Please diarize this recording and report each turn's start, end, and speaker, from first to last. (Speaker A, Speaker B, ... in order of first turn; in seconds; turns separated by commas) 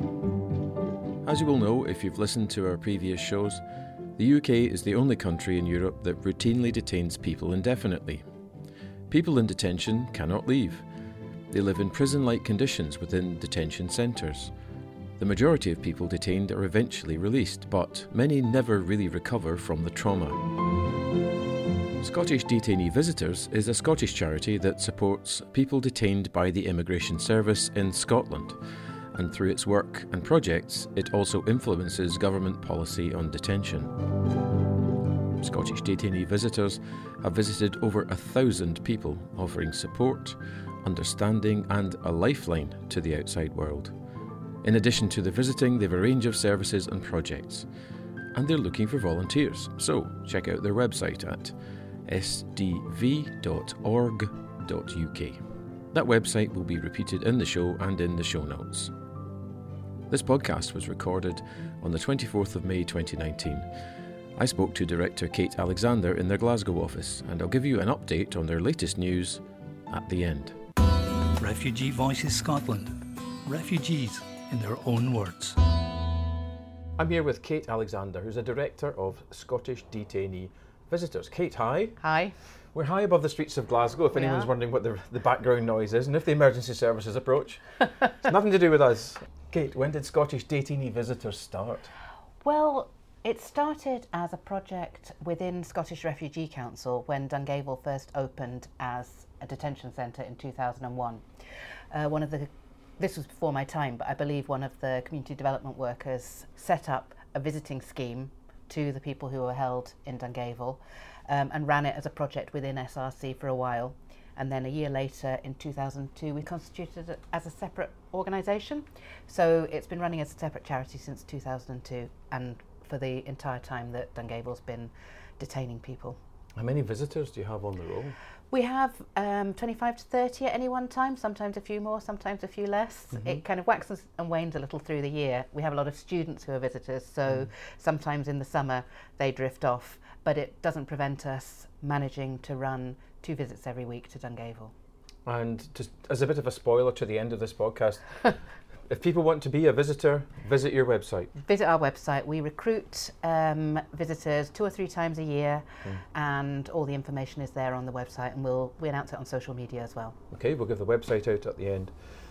Speaker A: 1.2-3.6, Speaker A: 4.2-8.2, Speaker A: 9.1-10.8, Speaker A: 11.5-14.5, Speaker A: 15.2-20.4, Speaker A: 22.0-28.6, Speaker A: 29.1-33.9, Speaker A: 35.4-43.9, Speaker A: 44.6-47.7, Speaker A: 48.3-51.5, Speaker A: 52.1-55.4, Speaker A: 55.9-58.9, Speaker A: 60.1-63.7, Speaker A: 64.4-70.6, Speaker B: 71.4-75.6, Speaker A: 77.0-82.0, Speaker C: 82.0-82.4, Speaker A: 82.7-91.9, Speaker C: 84.1-84.5, Speaker C: 92.4-101.2, Speaker C: 101.9-126.2, Speaker A: 126.6-128.2, Speaker C: 128.5-144.7, Speaker A: 145.2-151.3, Speaker C: 151.4-160.2, Speaker A: 160.3-161.9